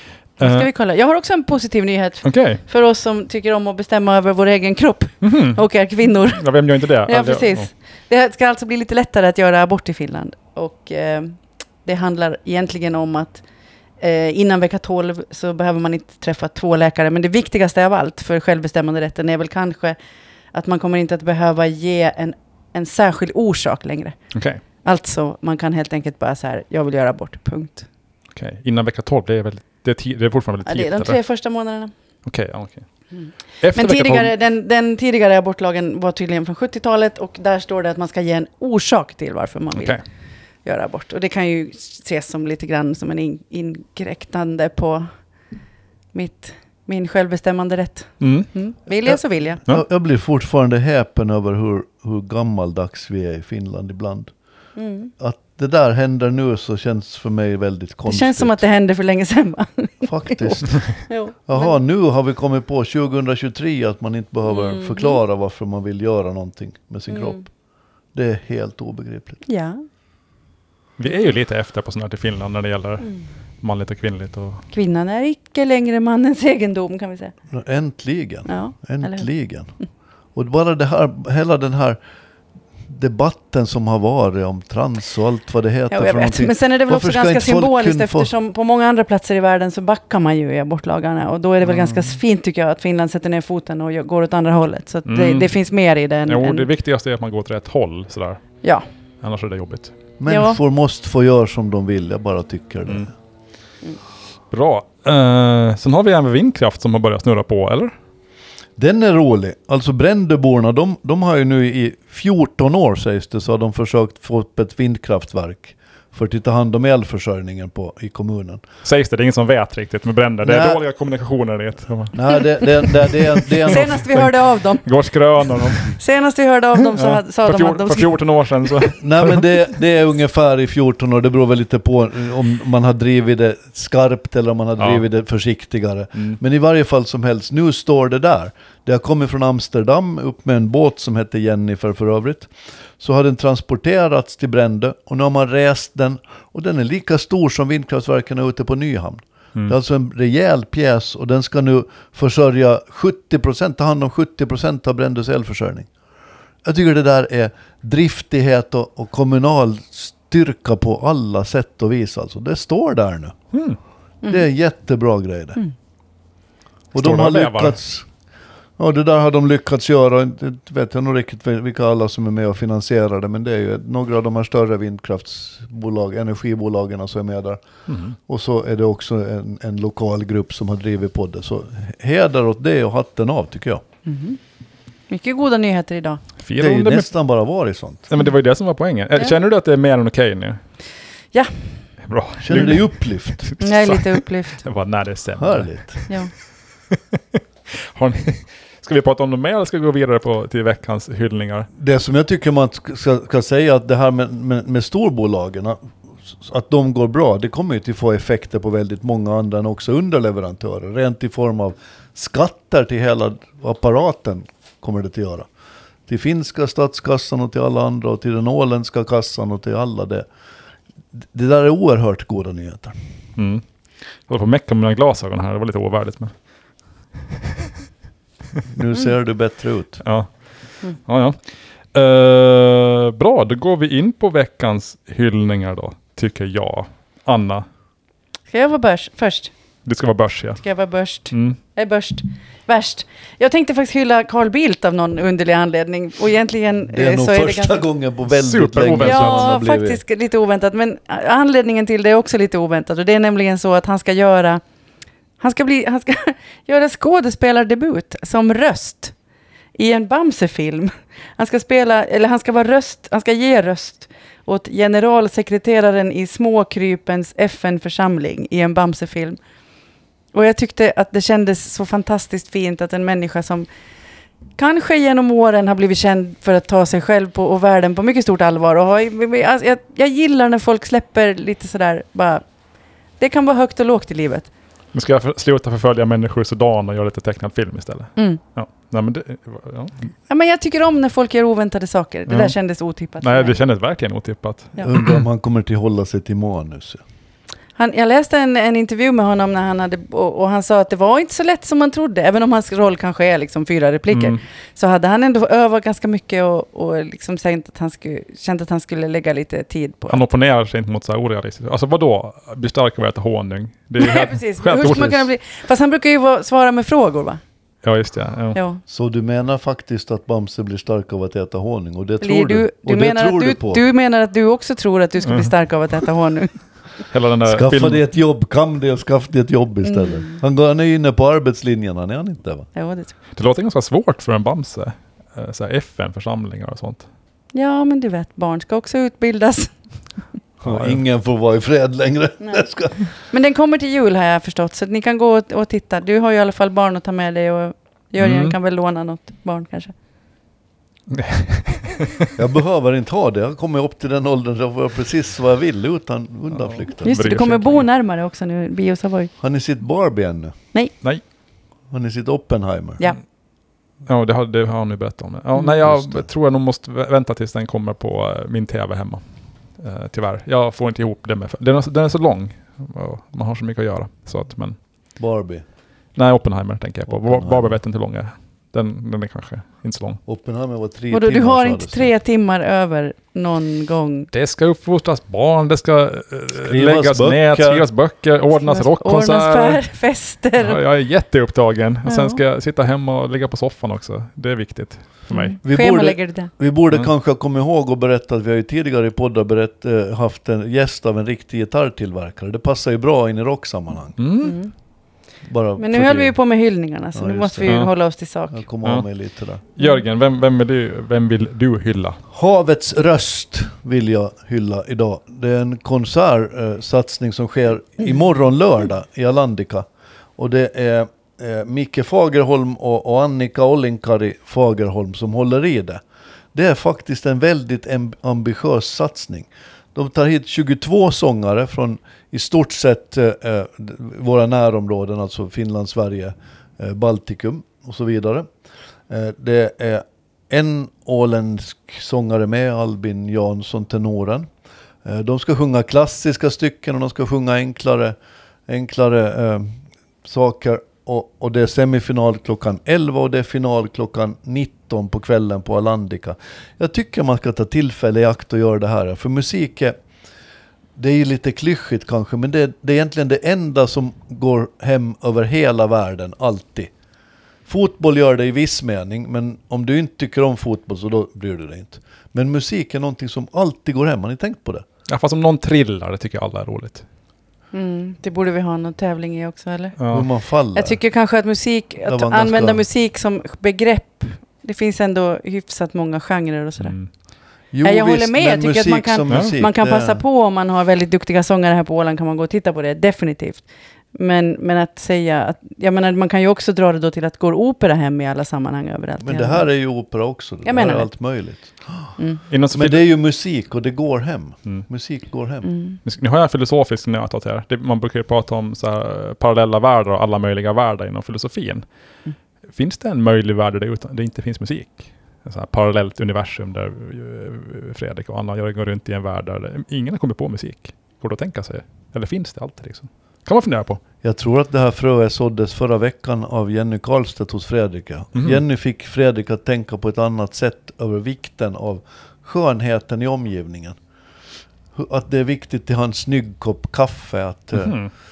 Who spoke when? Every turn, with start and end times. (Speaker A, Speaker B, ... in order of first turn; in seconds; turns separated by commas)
Speaker A: 0.4-0.7, Speaker B: 0.4-13.4, Speaker A: 2.2-2.6, Speaker A: 5.2-7.7, Speaker B: 14.0-19.9, Speaker B: 20.5-24.2, Speaker A: 24.3-24.6, Speaker B: 24.8-27.9, Speaker A: 28.3-31.2, Speaker B: 30.6-31.9, Speaker A: 32.2-32.9, Speaker B: 33.1-40.0, Speaker A: 33.6-34.3, Speaker A: 39.7-40.0, Speaker B: 40.6-45.1, Speaker B: 46.1-49.6, Speaker A: 48.2-48.5, Speaker C: 49.6-54.3, Speaker B: 54.8-55.1, Speaker C: 55.2-58.6, Speaker B: 58.0-61.7, Speaker C: 60.0-60.9, Speaker C: 61.5-67.5, Speaker B: 64.5-65.2, Speaker B: 67.1-67.4, Speaker C: 68.1-69.4, Speaker B: 69.5-69.8, Speaker A: 71.0-74.6, Speaker B: 74.7-77.3, Speaker C: 77.5-79.7, Speaker B: 78.5-79.3, Speaker C: 80.3-82.0, Speaker C: 82.9-88.3, Speaker B: 85.9-96.7, Speaker A: 91.7-92.1, Speaker A: 95.0-95.5, Speaker A: 96.2-98.4, Speaker A: 99.2-99.9, Speaker C: 100.2-103.1, Speaker B: 100.3-100.6, Speaker A: 104.5-107.9, Speaker C: 108.8-118.6, Speaker A: 118.8-122.6, Speaker C: 120.4-120.8, Speaker C: 122.1-124.2, Speaker A: 123.5-126.0, Speaker B: 123.6-124.9, Speaker B: 125.4-128.1, Speaker A: 126.9-129.5, Speaker C: 129.0-155.9, Speaker C: 156.6-163.3, Speaker A: 163.5-163.8, Speaker C: 164.3-165.6, Speaker C: 166.9-168.1, Speaker A: 167.0-167.8, Speaker C: 168.8-177.6, Speaker A: 177.9-178.1, Speaker C: 178.2-183.8, Speaker B: 184.1-184.4, Speaker B: 185.1-186.2, Speaker A: 186.4-187.1, Speaker C: 186.6-188.1, Speaker A: 188.1-190.6, Speaker A: 192.0-196.1, Speaker C: 192.4-193.5, Speaker B: 193.6-194.6, Speaker C: 195.4-196.0, Speaker A: 196.9-201.7, Speaker C: 201.8-215.5, Speaker C: 216.1-220.3, Speaker C: 221.2-222.9, Speaker A: 223.4-223.6, Speaker A: 224.3-226.3, Speaker C: 228.7-230.0, Speaker A: 230.0-230.3, Speaker A: 230.9-231.4, Speaker A: 231.9-237.7, Speaker B: 238.5-239.5, Speaker A: 239.8-240.6, Speaker B: 240.6-247.8, Speaker A: 241.3-241.6, Speaker C: 246.9-250.0, Speaker A: 248.3-249.5, Speaker B: 249.0-254.6, Speaker B: 255.4-259.1, Speaker B: 259.8-269.4, Speaker B: 270.3-273.7, Speaker B: 274.6-282.4, Speaker B: 283.2-284.5, Speaker A: 284.9-289.9, Speaker B: 290.3-293.6, Speaker A: 292.3-292.5, Speaker A: 293.2-295.2, Speaker C: 294.8-297.0, Speaker B: 297.8-310.2, Speaker A: 304.1-304.4, Speaker A: 310.1-315.3, Speaker B: 314.0-317.4, Speaker A: 317.8-318.6, Speaker B: 318.5-318.8, Speaker C: 318.9-323.8, Speaker B: 322.2-326.5, Speaker A: 325.2-325.5, Speaker A: 327.1-328.0, Speaker C: 327.4-332.7, Speaker B: 329.9-330.4, Speaker B: 332.7-333.1, Speaker A: 333.3-337.1, Speaker B: 337.5-339.7, Speaker C: 340.6-343.0, Speaker A: 340.6-341.0, Speaker B: 343.3-349.9, Speaker A: 348.2-348.5, Speaker A: 351.1-352.3, Speaker C: 352.4-357.2, Speaker A: 356.5-357.8, Speaker B: 357.0-359.3, Speaker C: 359.4-360.5, Speaker C: 361.9-363.0, Speaker A: 364.1-369.2, Speaker C: 365.9-366.2, Speaker A: 369.8-374.8, Speaker C: 375.2-375.6, Speaker A: 376.1-380.2, Speaker C: 377.1-377.7, Speaker C: 380.3-382.1, Speaker B: 381.1-384.3, Speaker A: 384.3-389.8, Speaker C: 386.6-387.9, Speaker B: 388.6-390.8, Speaker A: 390.6-395.5, Speaker B: 392.1-392.4, Speaker B: 395.3-396.5, Speaker C: 395.6-404.2, Speaker A: 404.2-404.6, Speaker B: 404.4-404.7, Speaker C: 405.4-406.3, Speaker B: 405.8-408.6, Speaker C: 407.1-407.7, Speaker C: 408.5-409.6, Speaker A: 409.8-412.2, Speaker C: 412.3-426.0, Speaker C: 426.5-438.5, Speaker C: 439.1-444.5, Speaker C: 445.0-448.1, Speaker C: 448.7-460.0, Speaker C: 460.9-466.9, Speaker C: 467.7-474.8, Speaker A: 475.1-477.0, Speaker B: 477.7-480.0, Speaker A: 480.0-480.3, Speaker C: 480.1-481.0, Speaker B: 480.7-486.9, Speaker C: 482.1-482.8, Speaker A: 486.8-487.1, Speaker C: 487.7-490.2, Speaker B: 487.8-499.7, Speaker A: 489.3-489.5, Speaker C: 499.2-502.1, Speaker B: 500.6-501.1, Speaker A: 502.5-503.0, Speaker C: 502.7-505.7, Speaker B: 505.6-506.0, Speaker A: 506.0-511.8, Speaker A: 512.7-524.0, Speaker C: 524.2-534.0, Speaker A: 528.3-528.6, Speaker C: 534.9-537.9, Speaker A: 537.7-538.1